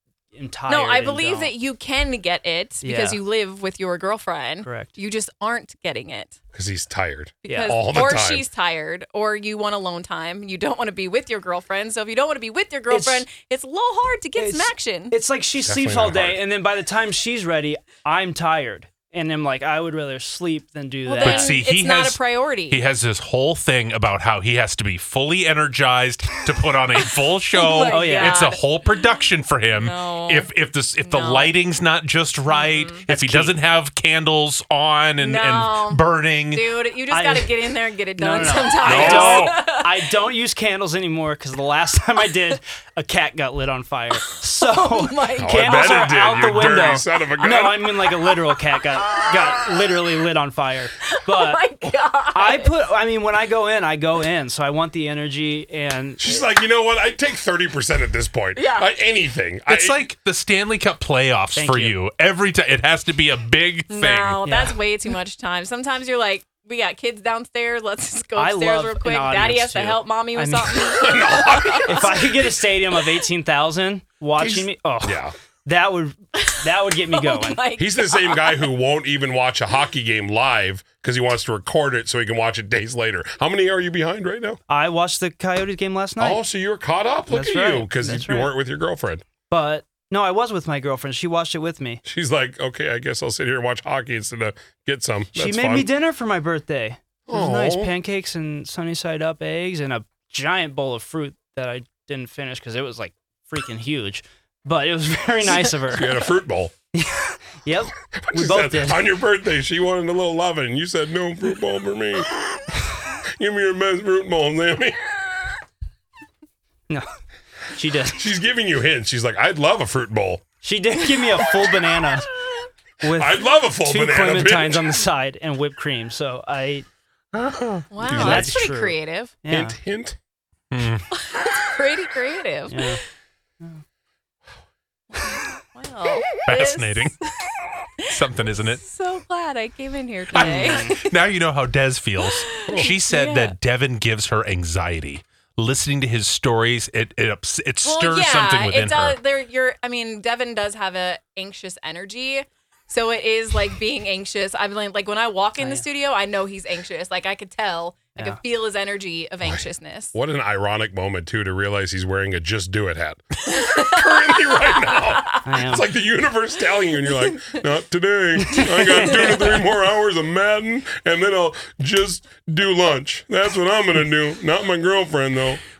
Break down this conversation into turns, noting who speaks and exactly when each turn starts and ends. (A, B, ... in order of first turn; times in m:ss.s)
0:00.3-0:01.5 A
0:00.7-0:06.4 B
0:02.8-0:03.2 A
0:04.6-0:04.9 A
0:06.5-0:08.4 C
0:07.4-0:15.1 B
0:07.5-0:07.8 A
0:12.9-0:13.2 A
0:14.4-0:21.6 A
0:15.6-0:16.4 C
0:21.0-0:22.8 B
0:21.2-0:36.7 D
0:27.0-0:28.6 B
0:27.9-0:28.5 A
0:29.7-0:31.5 B
0:32.5-0:33.0 B
0:33.1-0:33.6 A
0:35.2-0:40.1 B
0:37.1-0:51.6 A
0:38.8-0:39.6 D
0:44.6-0:45.9 B
0:45.4-0:47.9 C
0:49.0-0:49.6 B
0:51.0-0:52.7 B
0:52.3-0:56.2 A
0:56.2-1:00.0 C
0:58.6-0:58.9 B
0:59.7-1:04.4 D
1:01.6-1:02.0 A
1:03.9-1:12.2 B
1:04.4-1:04.8 A
1:08.4-1:10.8 A
1:10.8-1:12.4 C
1:11.8-1:17.6 A
1:14.4-1:15.3 C
1:16.4-1:18.6 B
1:17.8-1:24.6 C
1:24.7-1:26.4 A
1:26.2-1:29.2 C
1:27.3-1:28.5 A
1:29.5-1:32.0 A
1:32.0-1:35.9 C
1:35.3-1:46.2 A
1:37.3-1:37.9 C
1:45.9-1:46.7 C
1:46.9-1:49.1 A
1:48.1-1:52.3 C
1:53.4-1:55.0 C
1:57.7-1:58.2 A
1:58.2-2:00.4 C
2:00.6-2:02.3 A
2:03.0-2:06.8 A
2:03.1-2:05.0 C
2:07.4-2:07.8 D
2:07.9-2:09.3 B
2:08.0-2:08.6 C
2:08.1-2:09.8 A
2:09.5-2:10.2 C
2:10.7-2:11.0 D
2:11.1-2:12.9 B
2:12.7-2:13.0 A
2:15.1-2:17.4 B
2:16.4-2:17.1 D
2:18.0-2:21.1 B
2:18.1-2:18.8 D
2:20.3-2:29.2 D
2:20.4-2:21.0 A
2:22.2-2:23.5 B
2:22.6-2:22.9 C
2:27.8-2:40.1 B
2:35.6-2:35.8 A
2:39.4-2:55.6 C
2:43.5-2:45.4 B
2:45.4-2:45.9 A
2:48.5-2:49.4 A